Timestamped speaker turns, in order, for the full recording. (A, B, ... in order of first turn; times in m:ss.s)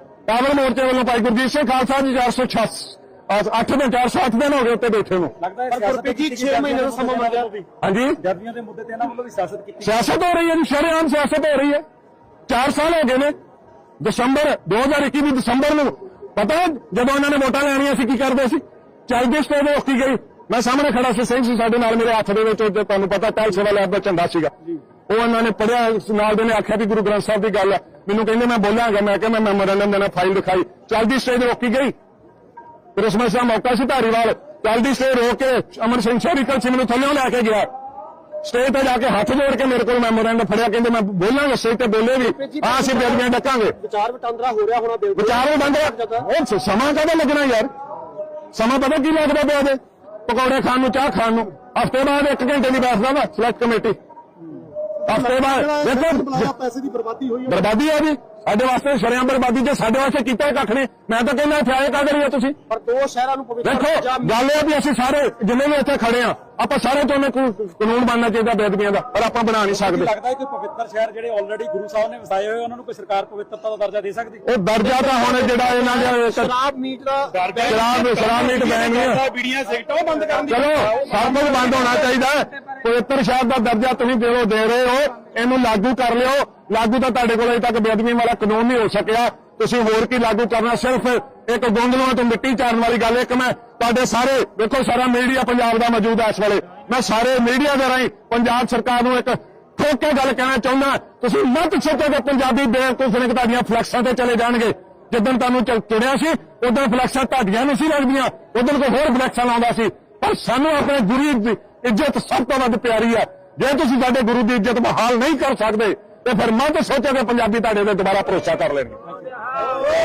0:00.3-0:05.3 A
0:05.4-0:07.5 B
0:05.7-0:07.6 C
0:07.8-0:08.2 A
0:08.2-0:10.1 B
0:09.8-0:11.8 A
0:12.5-0:13.3 A
0:14.0-0:24.5 A
0:25.1-0:31.9 A
0:32.9-0:37.7 A
0:38.4-0:43.8 A
0:42.2-0:46.3 C
0:45.2-0:47.7 A
0:48.5-0:54.0 A
0:55.0-0:57.7 C
0:55.0-0:56.5 A
0:57.5-1:02.6 A
1:02.7-1:04.4 C
1:03.6-1:10.1 A
1:09.7-1:14.4 B
1:14.4-1:16.5 A
1:14.8-1:17.9 C
1:17.3-1:21.8 B
1:17.6-1:19.2 A
1:20.5-1:59.0 A